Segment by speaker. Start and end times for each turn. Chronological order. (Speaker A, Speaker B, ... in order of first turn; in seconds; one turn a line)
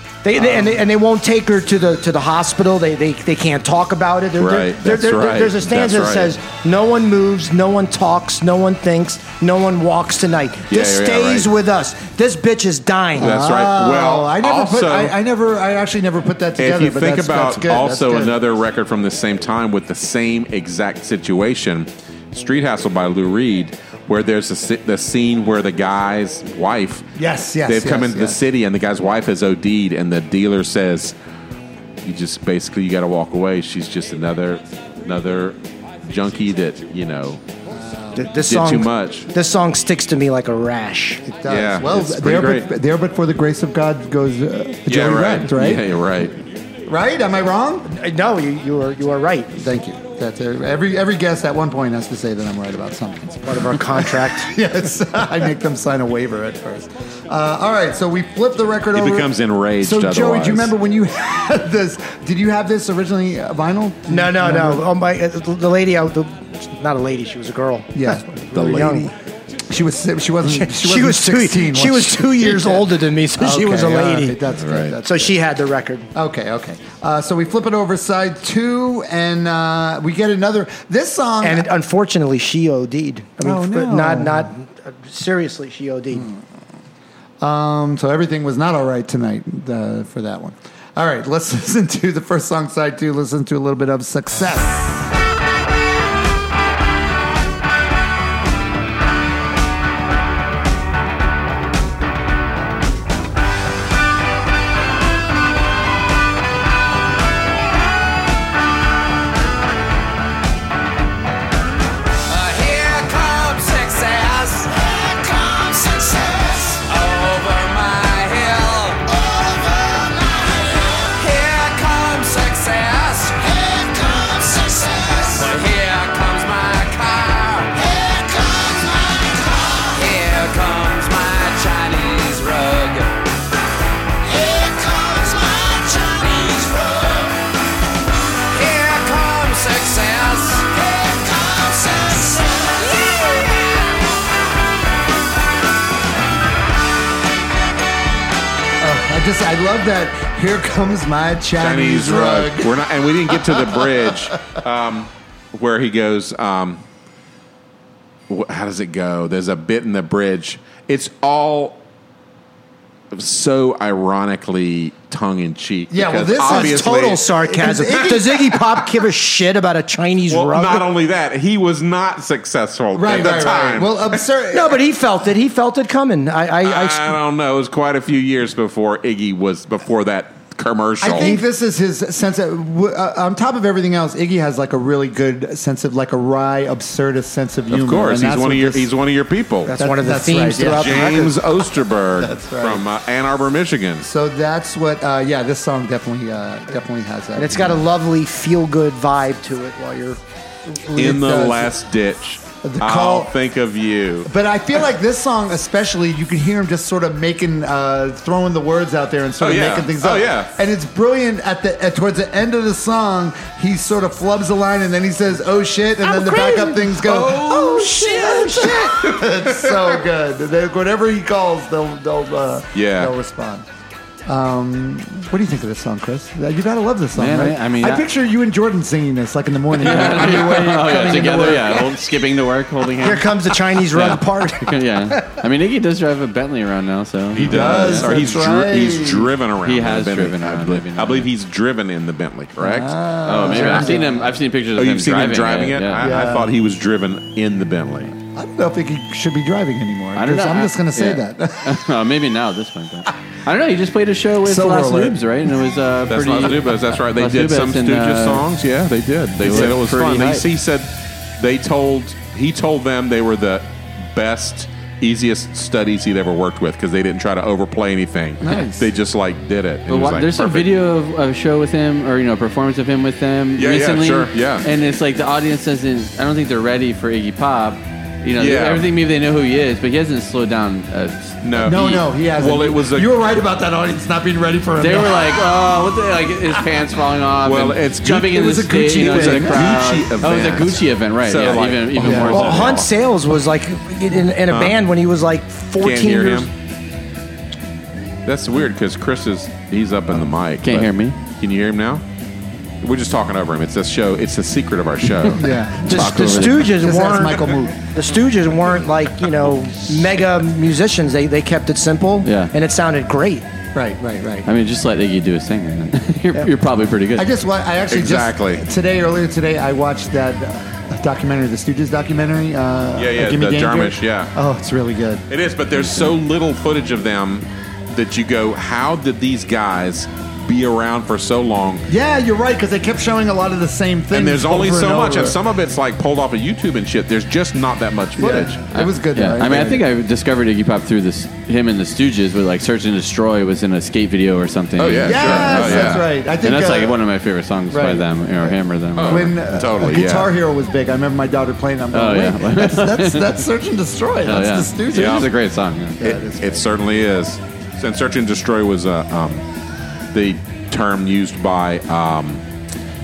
Speaker A: 0.2-13.3
Speaker B: 0.3-0.7
Speaker C: 4.4-6.4
Speaker C: 10.7-11.5
Speaker B: 13.2-18.4
Speaker C: 13.2-15.2
Speaker C: 16.6-27.1
Speaker B: 27.2-28.4
Speaker C: 27.7-31.1
Speaker C: 32.0-37.4
Speaker B: 37.7-38.3
Speaker A: 38.2-41.2
Speaker C: 38.4-39.3
Speaker B: 41.3-46.0
Speaker C: 41.5-42.7
Speaker C: 44.9-46.4
Speaker B: 46.9-47.9
Speaker A: 47.9-49.5
Speaker B: 49.5-64.9
Speaker A: 53.5-54.5
Speaker C: 58.9-60.7
Speaker A: 64.1-69.1
Speaker B: 67.9-69.1
Speaker C: 68.5-69.0
Speaker B: 69.7-75.3
Speaker A: 70.5-74.4
Speaker C: 74.6-75.0
Speaker A: 75.0-76.1
Speaker B: 76.1-81.7
Speaker A: 81.4-86.3
Speaker B: 83.4-84.5
Speaker B: 86.1-86.4
Speaker B: 87.4-95.1
Speaker D: 112.3-133.2
Speaker D: 134.2-137.4
Speaker D: 138.5-144.1
Speaker B: 148.8-152.8
Speaker C: 151.6-156.8
Speaker B: 153.3-154.2
Speaker C: 158.3-161.8
Speaker C: 163.1-167.3
Speaker B: 165.9-168.4
Speaker A: 166.4-170.9
Speaker C: 170.3-174.2
Speaker B: 172.9-174.8
Speaker A: 174.5-177.2
Speaker C: 176.6-181.3
Speaker B: 181.0-188.9
Speaker A: 181.1-181.4
Speaker C: 187.7-189.7
Speaker A: 189.7-191.2
Speaker B: 189.8-191.4
Speaker C: 190.7-194.1
Speaker B: 192.2-192.8
Speaker B: 194.0-197.8
Speaker A: 197.4-200.2
Speaker B: 200.8-201.7
Speaker C: 200.9-204.3
Speaker B: 202.6-203.3
Speaker B: 204.2-223.7
Speaker C: 209.4-210.5
Speaker A: 216.1-216.8
Speaker C: 216.9-219.8
Speaker A: 217.5-218.7
Speaker C: 222.7-223.1
Speaker B: 224.3-232.0
Speaker E: 227.1-228.1
Speaker E: 229.8-238.2
Speaker C: 230.1-230.4
Speaker A: 233.0-235.3
Speaker C: 237.3-244.0
Speaker B: 237.3-239.3
Speaker E: 239.6-241.3
Speaker B: 242.6-244.4
Speaker E: 243.2-246.1
Speaker C: 244.7-248.2
Speaker B: 246.0-246.5
Speaker B: 248.3-251.9
Speaker E: 250.2-258.4
Speaker B: 254.4-255.2
Speaker C: 256.1-270.7
Speaker E: 259.4-260.5
Speaker B: 268.4-268.9
Speaker E: 269.9-281.4
Speaker C: 273.6-274.7
Speaker C: 278.4-278.9
Speaker C: 281.4-283.1
Speaker B: 281.6-285.7
Speaker E: 284.8-292.9
Speaker C: 287.4-292.9
Speaker B: 288.3-289.8
Speaker B: 292.0-292.5
Speaker A: 292.2-296.5
Speaker C: 294.5-294.8
Speaker C: 295.8-296.5
Speaker C: 298.2-302.0
Speaker E: 300.6-301.1
Speaker C: 302.8-305.6
Speaker E: 305.3-306.8
Speaker B: 305.4-307.8
Speaker A: 305.9-313.5
Speaker E: 312.2-312.5
Speaker B: 313.7-314.5
Speaker E: 314.4-317.3
Speaker B: 317.2-325.3
Speaker C: 317.9-318.6
Speaker C: 323.0-324.3
Speaker C: 325.3-331.9
Speaker B: 331.9-335.4
Speaker C: 334.1-338.7
Speaker B: 338.2-339.9
Speaker E: 338.7-349.3
Speaker C: 344.8-346.1
Speaker B: 345.0-347.0
Speaker B: 347.7-355.3
Speaker C: 349.0-350.3
Speaker E: 351.9-353.4
Speaker E: 354.2-356.0
Speaker C: 354.9-355.3
Speaker B: 356.0-356.7
Speaker C: 356.0-359.4
Speaker C: 360.1-362.4